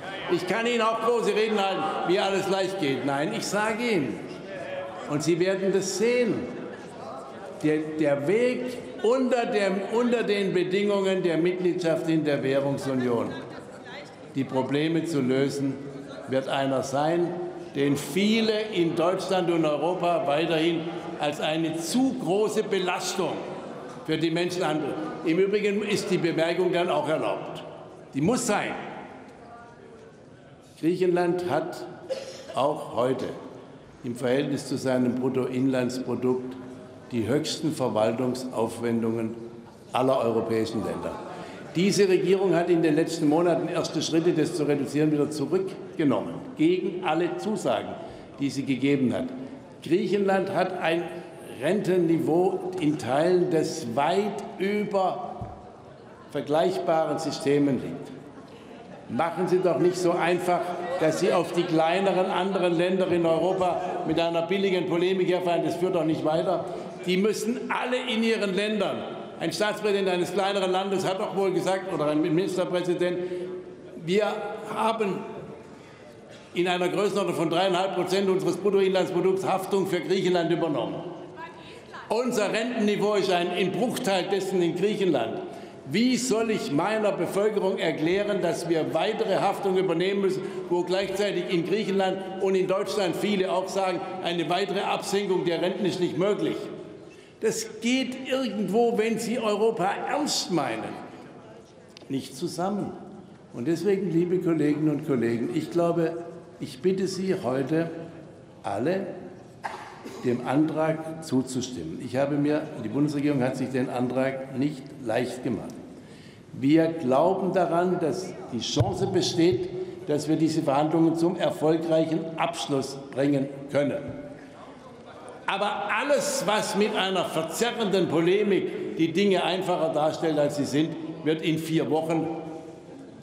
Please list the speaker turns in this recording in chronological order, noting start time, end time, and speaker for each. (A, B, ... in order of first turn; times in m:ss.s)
0:00.3-0:04.2 A
0:05.1-0:06.5 A
0:07.6-0:13.4 A
0:14.3-0:23.4 A
0:24.0-0:28.8 A
0:30.8-0:31.9 A
0:32.5-0:33.4 A
0:34.0-0:36.6 A
0:37.1-0:39.4 A
0:39.9-0:41.2 A
0:41.7-0:55.6 A
0:56.3-0:58.1 A
0:59.1-1:13.3 A
1:14.0-1:15.3 A
1:16.5-1:21.1 A
1:22.1-1:36.7 A
1:37.4-1:41.0 A
1:42.1-1:43.0 A
1:43.5-1:47.9 A
1:48.6-1:49.1 A
1:50.2-1:55.8 A
1:56.5-2:04.2 A
2:05.5-2:12.4 A